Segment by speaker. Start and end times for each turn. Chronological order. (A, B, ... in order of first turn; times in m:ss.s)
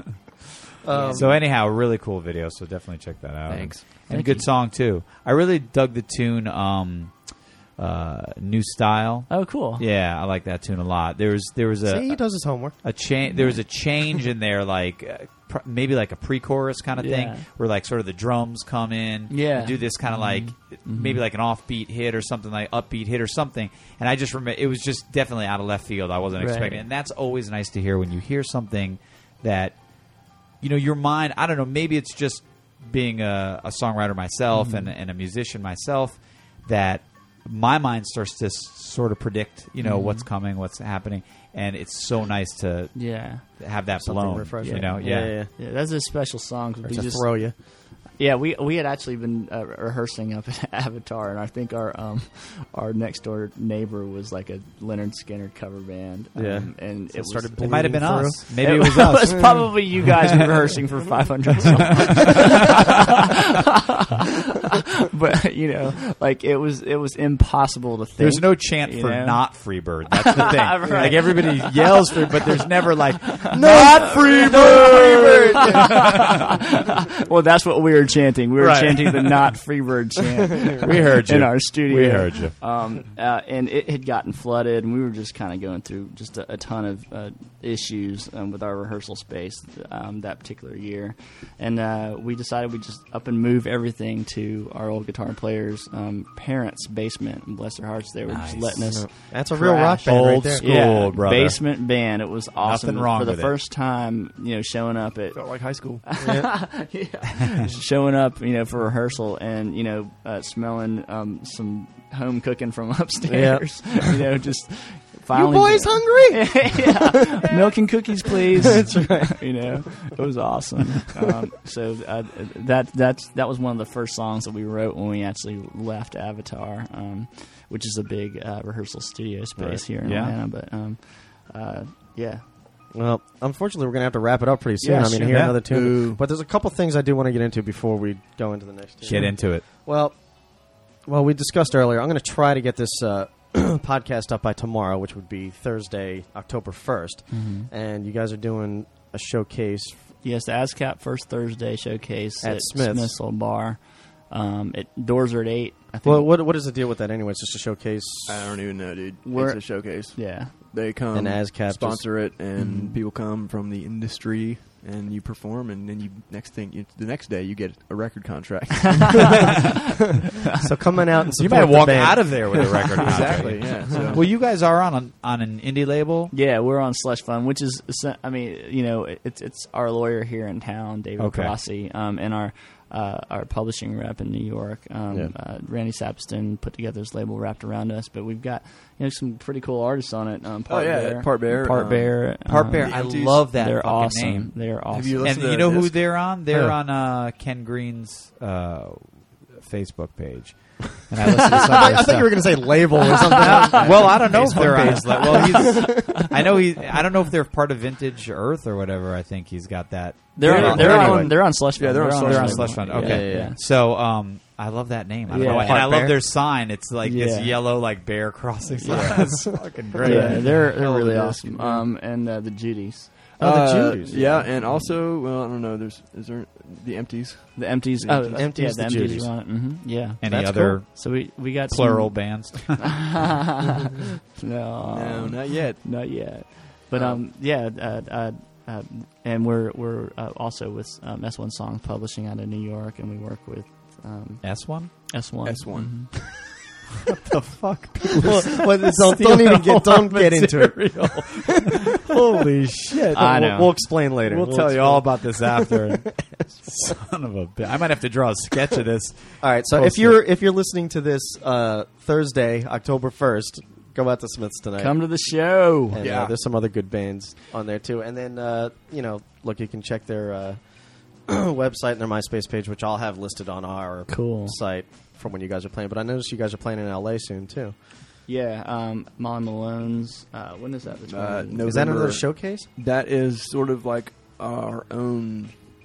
0:00.8-0:01.4 A
0:00.9-0:01.3 B
0:00.9-0:01.2 C
0:01.1-0:45.4 D
0:03.5-0:03.8 C
0:04.1-0:04.5 B
0:09.3-0:09.8 B
0:11.8-0:12.8 A
0:13.2-0:13.9 B
0:17.0-0:17.5 B
0:19.3-0:21.2 B
0:26.4-0:26.8 B
0:34.5-0:34.9 B
0:39.8-0:40.3 B
0:42.9-0:43.4 B
0:44.0-0:45.5 A
0:44.6-1:03.5 B
0:46.8-0:47.6 A
0:56.4-0:58.4 A
0:57.6-1:00.0 D
1:04.7-1:15.0 B
1:08.2-1:16.3 D
1:10.8-1:11.3 A
1:13.5-1:16.1 A
1:15.6-2:12.5 B
1:18.6-1:19.5 D
1:20.8-1:22.6 D
1:38.3-1:39.0 D
1:38.9-1:40.7 A
1:40.0-1:41.9 D
1:42.6-1:43.6 D
1:45.3-1:46.0 C
1:46.2-1:46.6 A
1:53.3-1:54.1 A
1:55.3-1:57.5 A
1:58.6-1:59.6 A
2:09.6-2:09.8 A
2:10.0-2:10.4 D
2:12.9-2:30.1 A
2:14.8-2:15.6 B
2:15.2-2:15.6 D
2:15.6-2:16.2 C
2:19.0-2:19.3 B
2:19.1-2:19.6 D
2:27.3-2:27.7 B
2:30.2-2:36.3 B
2:32.4-2:33.2 A
2:36.0-2:38.6 A
2:38.3-2:49.6 C
2:39.2-2:40.5 B
2:41.1-2:42.3 A
2:42.6-2:43.0 B
2:50.6-2:52.7 A
2:51.4-2:56.3 D
2:52.5-2:54.2 C
2:53.3-2:54.2 B
2:56.3-3:15.5 B
3:01.2-3:01.6 D
3:10.7-3:13.5 C
3:11.8-3:12.0 A
3:12.4-3:14.7 D
3:14.9-3:16.2 C
3:15.2-3:22.8 D
3:16.5-3:16.8 A
3:21.5-3:26.3 A
3:23.4-3:26.2 B
3:23.4-3:31.4 D
3:30.4-3:33.6 B
3:30.4-3:32.9 C
3:30.5-3:31.3 A
3:32.1-3:40.6 D
3:32.9-3:33.6 A
3:35.3-3:36.1 B
3:35.4-3:36.2 A
3:37.0-3:37.6 B
3:38.8-3:39.4 B
3:38.9-3:40.5 A
3:40.0-3:41.9 C
3:40.0-3:43.4 B
3:43.4-3:44.5 A
3:43.4-3:48.5 C
3:44.1-3:44.9 B
3:47.6-4:06.5 B
3:48.2-3:49.4 A
3:50.2-3:53.3 D
3:50.2-3:50.8 A
3:54.9-3:55.9 C
4:04.4-4:04.9 D
4:05.4-4:06.5 C
4:07.1-4:12.1 D
4:08.2-4:16.6 A
4:12.8-4:20.2 D
4:13.1-4:13.8 B
4:19.4-4:25.2 A
4:24.8-4:26.0 B
4:25.9-4:37.7 A
4:26.0-4:26.4 C
4:34.1-4:34.6 B
4:38.3-4:41.7 B
4:41.1-4:45.6 C
4:41.6-4:42.7 A